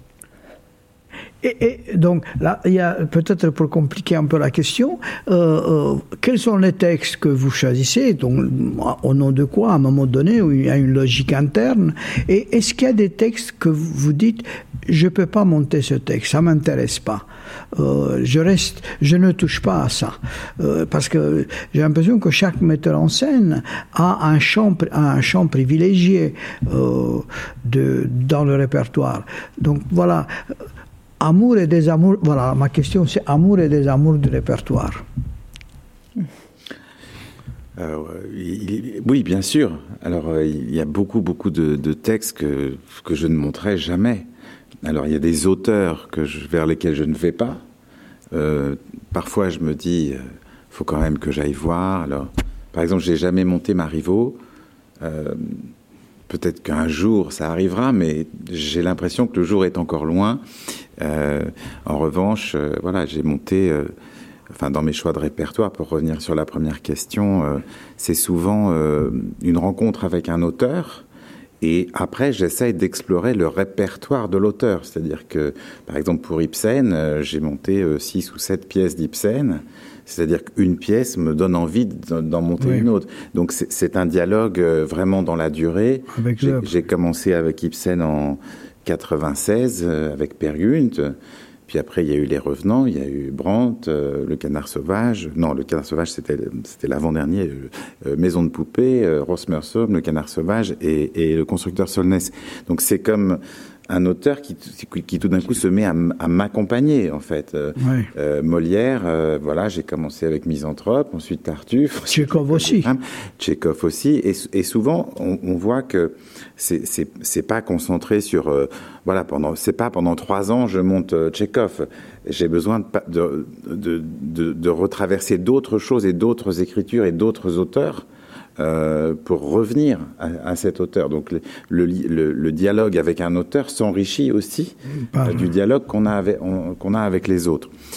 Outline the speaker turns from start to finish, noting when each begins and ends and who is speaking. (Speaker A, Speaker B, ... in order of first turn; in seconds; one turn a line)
Speaker A: 1.4-30.3
Speaker A: 31.2-35.0
Speaker B: 37.8-44.3
Speaker B: 44.8-47.6
Speaker B: 48.3-54.4
Speaker B: 55.0-55.7
Speaker B: 56.3-60.4
Speaker B: 61.0-63.9
Speaker B: 64.5-71.0
Speaker B: 71.6-91.2
Speaker A: 86.1-86.7
Speaker B: 91.7-128.1
Speaker A: 107.8-108.1
Speaker A: 112.1-112.9
Speaker B: 128.6-137.7
Speaker A: 135.1-135.4